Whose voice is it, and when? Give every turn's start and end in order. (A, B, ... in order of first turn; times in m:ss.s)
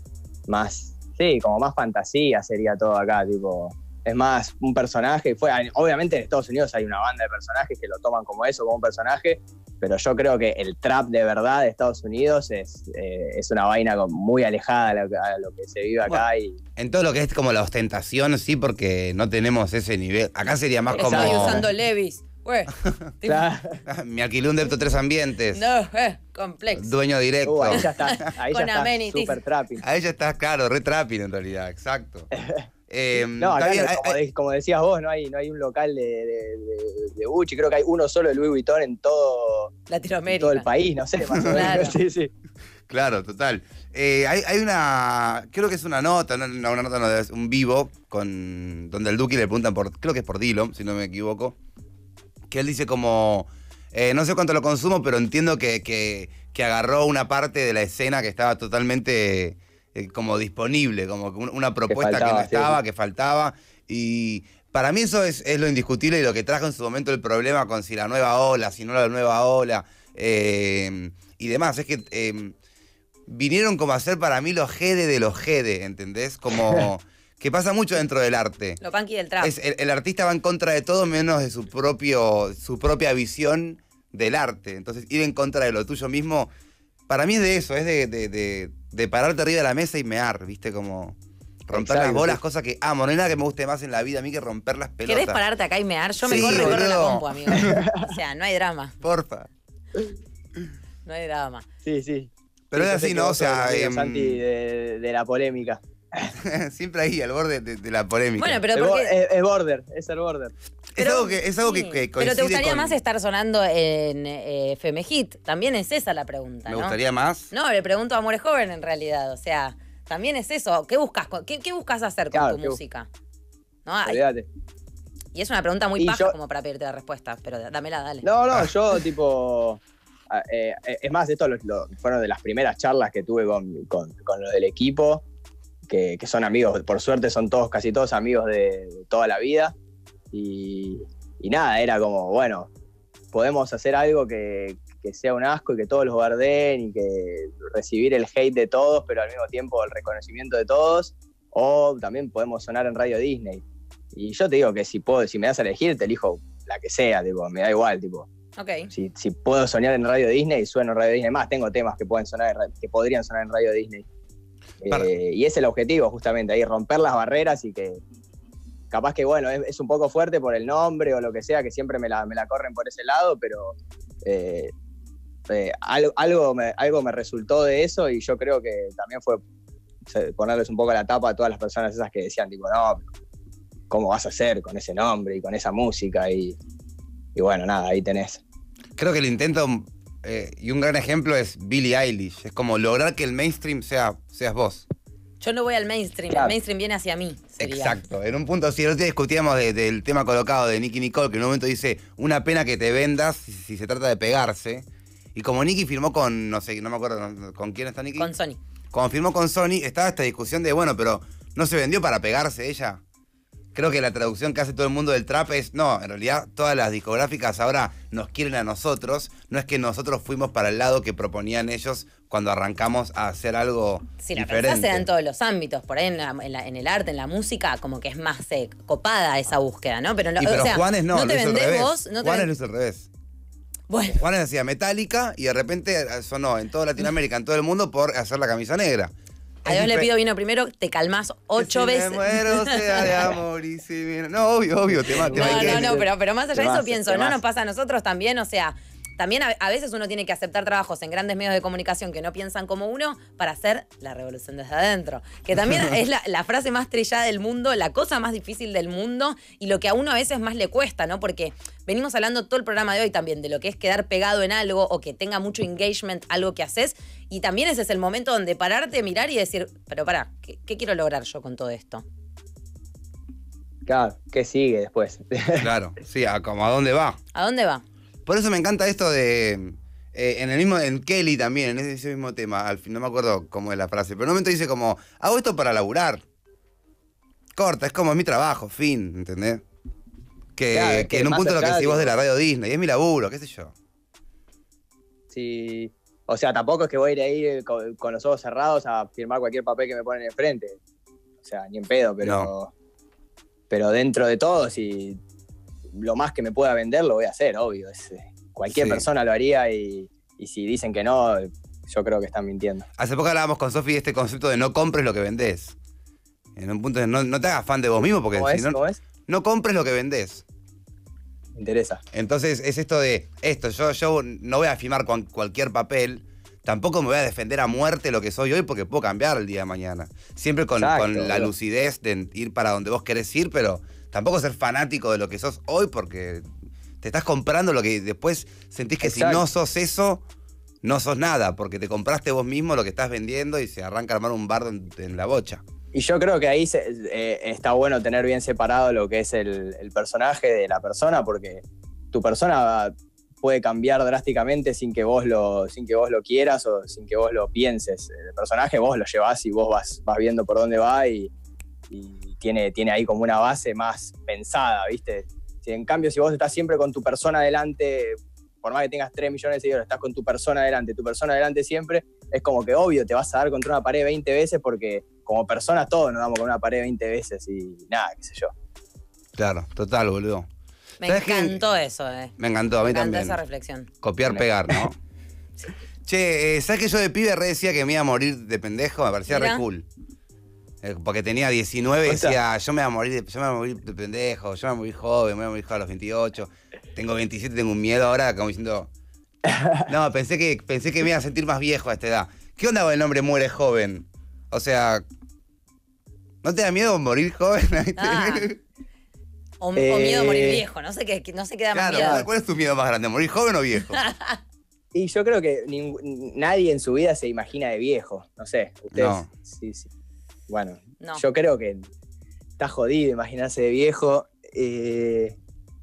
0:00.5-0:16.6 A
0:16.8-0:21.6 B
0:20.9-0:21.7 A
0:20.9-0:23.5 C
0:23.2-0:23.8 A
0:23.8-0:25.6 B
0:25.5-0:26.9 C
0:26.8-0:28.2 B
0:27.4-0:29.8 A
0:27.8-0:29.4 C
0:29.8-0:32.3 B
0:32.3-0:32.7 A
0:32.9-0:34.2 B
0:33.4-0:39.7 A
0:39.9-0:40.7 C
0:40.3-0:42.3 A
0:41.3-0:41.7 B
0:41.5-0:42.0 C
0:42.9-0:51.5 B
0:52.5-1:12.5 B
1:01.9-1:02.8 A
1:13.3-1:18.8 B
1:18.8-1:19.5 C
1:19.4-1:26.5 B
1:27.1-1:35.4 B
1:31.7-1:32.4 A
1:35.1-1:39.0 C
1:36.2-1:37.8 B
1:36.3-1:36.8 A
1:37.5-1:38.1 A
1:39.0-1:39.5 B
1:41.0-1:41.6 C
1:41.8-1:46.3 A
1:42.7-1:44.4 B
1:46.3-1:48.6 B
1:48.4-1:49.1 C
1:48.7-1:50.5 A
1:50.9-1:53.0 B
1:51.0-1:57.0 C
1:56.7-1:57.5 B
1:57.5-2:03.1 C
2:02.3-2:02.8 A
2:03.8-2:04.2 C
2:04.0-2:04.5 A
2:05.3-2:08.3 C
2:06.0-2:06.3 A
2:08.2-2:15.2 A
2:15.9-2:19.7 A
2:20.3-2:22.7 A
2:23.3-2:38.3 A
2:38.6-2:38.9 C
2:38.9-2:44.0 A
2:44.8-2:48.0 A
2:48.9-2:54.7 A
2:55.5-2:59.4 A
3:00.0-3:03.1 A
3:03.9-3:06.6 A
3:07.3-3:08.4 A
3:09.0-3:14.9 B
3:15.4-3:18.0 C
3:17.6-3:28.3 B
3:28.2-3:28.6 C
3:28.9-3:33.0 B
3:33.7-3:45.1 B
3:44.2-3:52.5 C
3:50.4-3:53.1 B
3:53.9-3:54.2 C
3:54.1-3:59.1 B
3:59.6-4:00.1 B
3:59.6-4:03.2 C
4:01.6-4:06.0 B
4:05.0-4:07.4 A
4:05.3-4:32.0 C
4:33.8-4:35.7 A
4:35.6-4:37.2 B
4:37.3-4:37.8 C
4:38.2-4:46.2 B
4:47.5-4:49.6 B
4:50.6-4:53.7 B
4:50.7-4:52.1 A
4:55.3-5:00.8 A
5:01.4-5:02.7 A
5:02.2-5:02.5 B
5:03.7-5:05.2 A
5:05.9-5:12.8 A
5:08.7-5:09.1 B
5:13.0-5:15.8 B
5:16.6-5:20.4 B
5:18.3-5:19.0 A
5:21.6-5:22.0 A
5:22.1-5:36.4 B
5:30.8-5:31.5 A
5:37.0-5:40.2 B
5:39.0-5:39.4 A
5:40.8-5:45.6 B
5:45.9-6:01.3 A
6:01.9-6:18.5 A
6:19.3-6:20.5 B
6:21.0-6:23.9 C
6:21.0-6:21.6 B
6:22.4-6:23.4 B
6:24.0-6:25.0 B
6:24.3-6:24.8 A
6:26.0-6:29.8 B
6:29.3-6:29.6 C
6:30.8-6:38.9 B
6:32.1-6:32.4 A
6:39.4-6:39.9 A
6:39.9-6:45.0 B
6:46.4-6:48.5 B
6:48.0-6:48.5 C
6:49.6-6:52.2 C
6:49.8-6:50.6 A
6:51.7-6:54.0 B
6:51.9-6:52.2 A
6:53.9-6:54.4 C
6:54.9-6:59.9 A
6:58.9-6:59.3 B
7:00.5-7:01.9 A
7:02.6-7:05.4 A